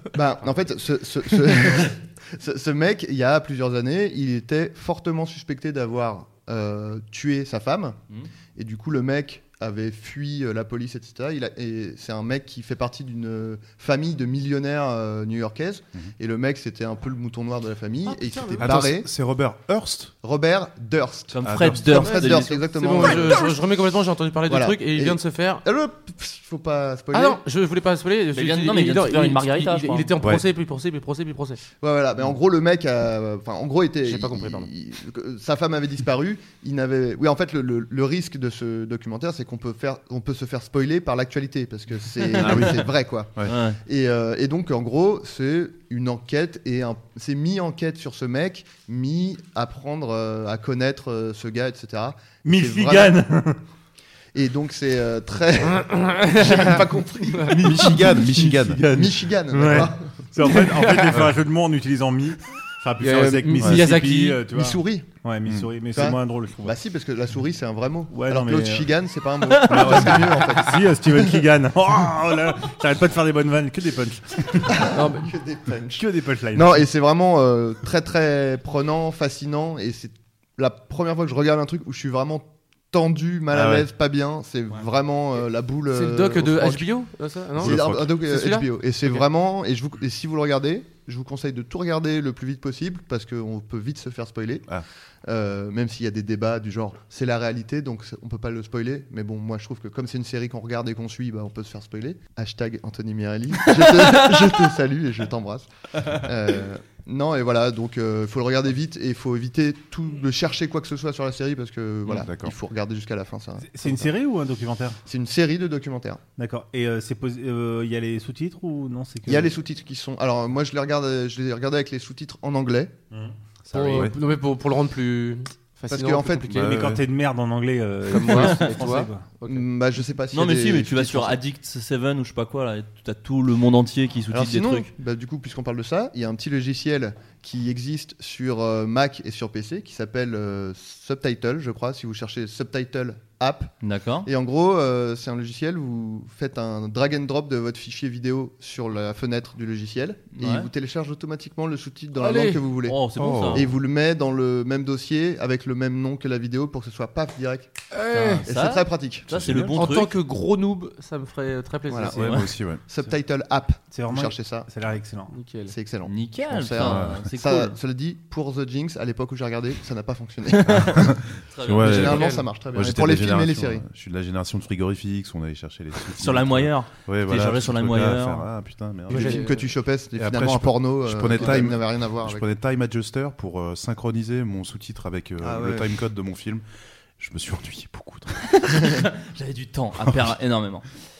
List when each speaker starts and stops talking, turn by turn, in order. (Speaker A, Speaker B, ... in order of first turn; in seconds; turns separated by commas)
Speaker A: 0.1-8.0, Speaker A: 8.6-19.1, Speaker B: 18.1-18.8, Speaker C: 18.6-20.1, Speaker A: 20.2-23.5, Speaker D: 21.3-22.5, Speaker C: 21.4-21.9, Speaker B: 21.9-25.6, Speaker A: 24.5-27.4, Speaker B: 27.1-31.6, Speaker D: 28.3-30.1, Speaker A: 31.8-53.2, Speaker B: 34.0-34.7, Speaker C: 42.4-42.8, Speaker D: 43.4-43.8, Speaker E: 52.4-53.6, Speaker A: 54.3-60.1, Speaker B: 55.7-57.5, Speaker C: 57.5-58.8, Speaker E: 57.8-66.7, Speaker B: 60.4-61.2, Speaker B: 63.0-64.4, Speaker A: 64.5-65.1, Speaker A: 65.9-71.4, Speaker E: 68.1-68.9, Speaker D: 69.5-70.1, Speaker E: 69.6-74.9, Speaker A: 74.6-86.9, Speaker B: 74.9-75.3, Speaker E: 75.9-76.8, Speaker C: 83.5-83.9, Speaker B: 85.9-89.2, Speaker A: 87.5-94.6, Speaker C: 87.6-88.1, Speaker A: 95.2-114.1, Speaker C: 112.1-112.5, Speaker E: 113.7-115.0, Speaker A: 115.0-116.2, Speaker E: 116.4-119.5, Speaker A: 119.2-123.0, Speaker B: 123.7-126.8, Speaker A: 123.7-124.1, Speaker C: 123.8-124.1, Speaker A: 125.9-126.6, Speaker C: 126.5-127.0, Speaker E: 126.6-129.3, Speaker B: 128.1-129.6, Speaker A: 129.4-131.4, Speaker D: 130.3-134.9, Speaker A: 134.3-143.7, Speaker D: 143.8-144.3, Speaker A: 144.2-153.0, Speaker D: 150.3-150.7, Speaker B: 152.2-152.6, Speaker D: 152.8-153.7, Speaker C: 153.2-153.7, Speaker A: 153.5-159.3, Speaker B: 157.9-158.4, Speaker D: 158.1-160.2, Speaker C: 159.3-159.8, Speaker B: 159.7-162.4, Speaker A: 161.9-164.7, Speaker C: 162.1-162.8, Speaker E: 162.2-162.4, Speaker E: 163.9-165.3, Speaker B: 165.3-165.7, Speaker A: 165.7-171.2, Speaker D: 166.1-167.8, Speaker C: 166.8-167.2, Speaker D: 170.5-172.3, Speaker C: 170.7-179.4, Speaker A: 171.8-173.8, Speaker B: 171.8-172.5, Speaker D: 176.2-178.5, Speaker B: 179.1-179.7, Speaker A: 179.1-182.5, Speaker C: 180.2-186.6, Speaker A: 185.4-185.9, Speaker C: 187.2-188.9, Speaker D: 188.5-190.8